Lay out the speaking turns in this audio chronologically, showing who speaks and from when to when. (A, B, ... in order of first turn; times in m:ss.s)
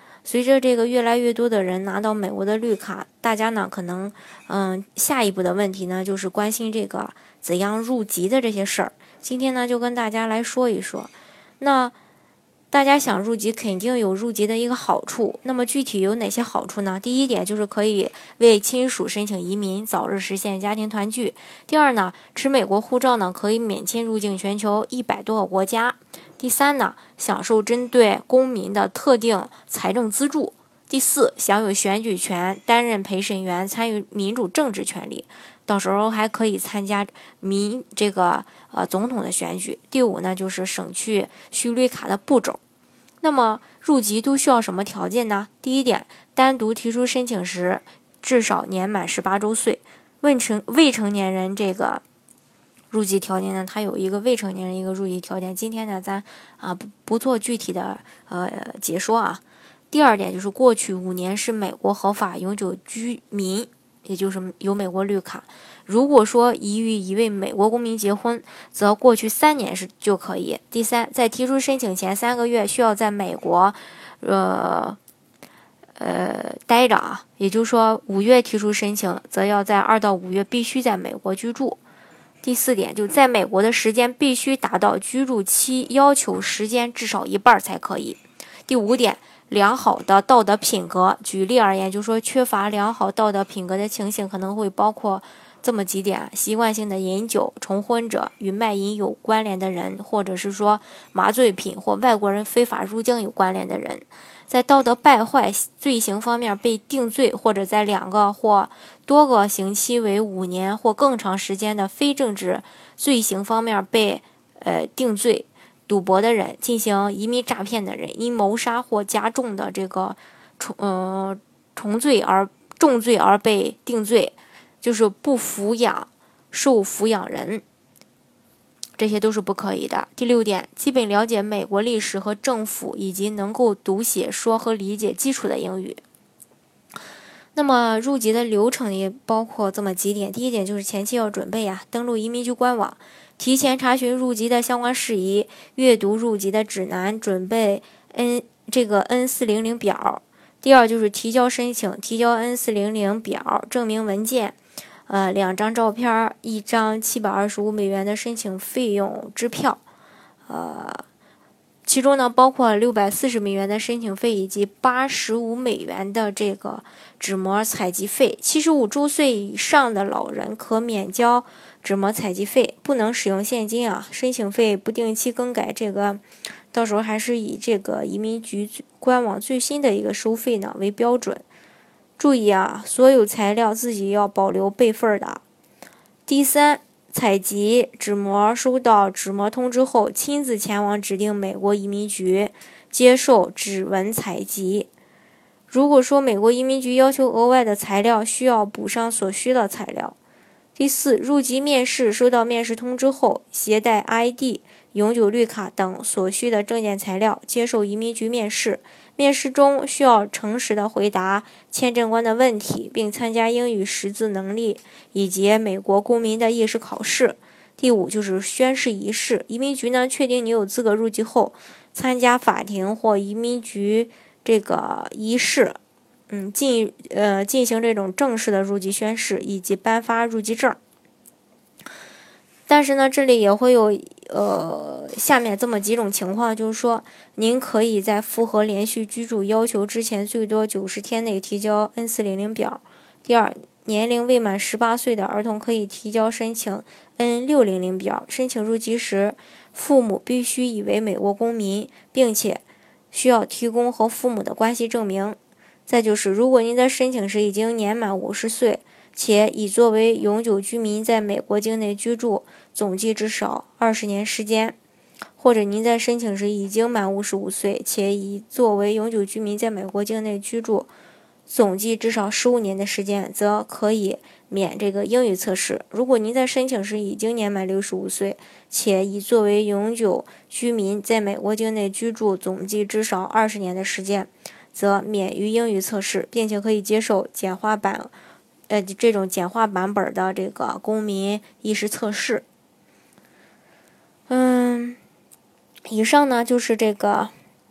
0:00.2-0:11.9 A
0:12.7-0:42.6 A
0:43.2-0:52.0 A
0:52.9-1:15.0 A
1:16.0-1:21.8 A
1:22.4-2:07.6 A
2:09.0-2:16.0 A
2:17.5-2:34.6 A
2:35.1-2:39.8 A
2:40.5-2:41.0 A
2:41.8-3:01.4 A
3:02.2-3:05.4 A
3:06.3-3:14.9 A
3:15.7-3:20.1 A
3:20.8-3:45.8 A
3:46.3-3:50.8 A
3:52.7-4:24.8 A
4:25.4-4:30.9 A
4:31.5-4:48.1 A
4:48.7-4:52.4 A
4:54.3-4:55.0 A
4:55.8-4:57.3 A